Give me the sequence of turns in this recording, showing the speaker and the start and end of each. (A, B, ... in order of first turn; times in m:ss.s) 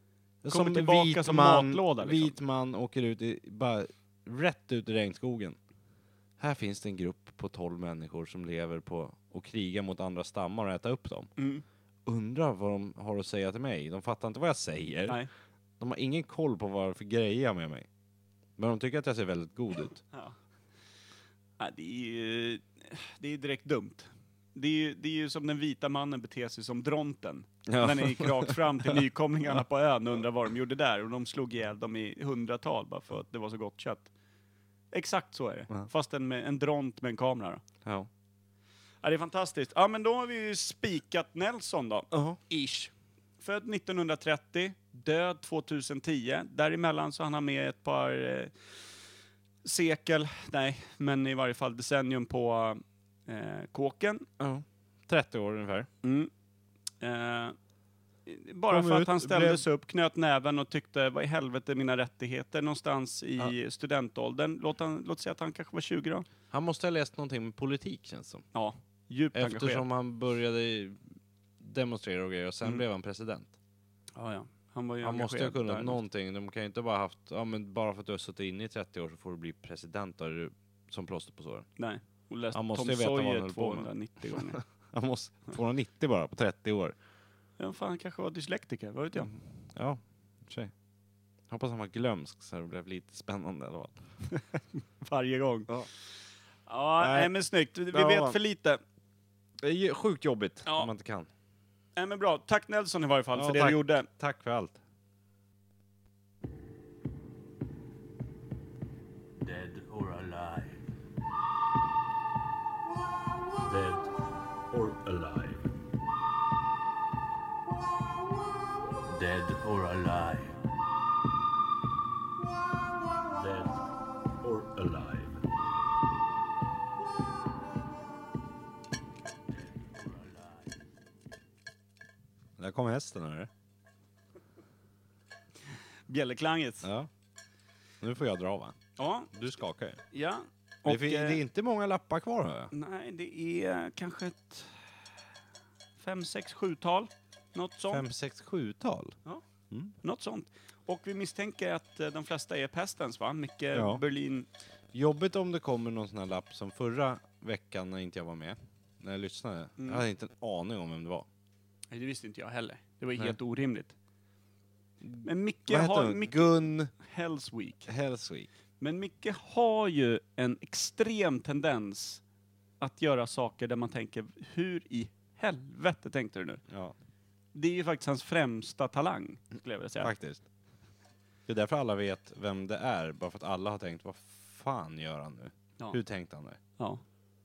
0:00.4-0:05.6 A
0:00.5-0:02.4 B
0:06.4-0:11.3 A
0:11.4-0:11.6 B
0:12.1-0:15.2 A
0:15.8-0:17.9 A
0:18.6-0:20.0 A
0:21.6-0:34.1 B
0:27.7-0:28.9 A
0:34.9-0:37.6 B
0:37.8-0:38.1 A
0:39.0-0:48.7 B
0:42.1-0:42.4 A
0:49.6-0:54.3 B
0:54.4-0:55.9 A
0:56.0-0:56.3 B
0:57.0-0:57.6 B
0:58.3-1:06.3 B
0:58.7-0:59.6 A
1:06.5-1:08.4 A
1:08.5-1:09.9 B
1:09.3-1:11.0 A
1:11.6-1:13.5 A
1:14.2-1:16.0 B
1:15.0-1:21.7 A
1:21.8-1:24.6 B
1:22.5-1:27.0 A
1:27.6-1:29.4 B
1:29.2-1:30.7 A
1:31.5-1:34.0 A
1:34.3-1:35.7 B
1:36.7-1:38.8 B
1:37.0-1:37.3 A
1:37.9-1:38.4 A
1:39.6-1:41.3 A
1:42.0-1:44.1 B
1:43.3-1:44.8 A
1:49.4-1:50.8 C
1:53.6-1:54.1 C
1:54.7-1:55.7 C
1:59.1-2:00.6 C
2:03.3-2:03.8 C
2:04.4-2:05.4 C
2:09.8-2:10.5 C
2:12.6-2:13.5 A
2:16.1-2:16.9 B
2:16.8-2:17.1 A
2:18.0-2:18.8 A
2:19.0-2:19.3 B
2:19.3-2:20.0 A
2:20.1-2:21.4 B
2:20.9-2:22.7 A
2:22.7-2:24.9 B
2:26.0-2:28.0 B
2:27.9-2:29.2 A
2:30.0-2:34.5 B
2:33.7-2:34.0 A
2:34.9-2:41.3 A
2:39.8-2:40.0 B
2:41.9-2:44.0 B
2:45.0-2:46.9 A
2:45.2-2:47.9 B
2:47.9-2:48.5 A
2:48.8-2:52.2 B
2:52.8-2:56.6 B
2:56.7-2:56.9 A
2:57.5-3:00.1 B
3:00.0-3:00.4 A
3:01.5-3:06.6 A
3:06.8-3:07.0 B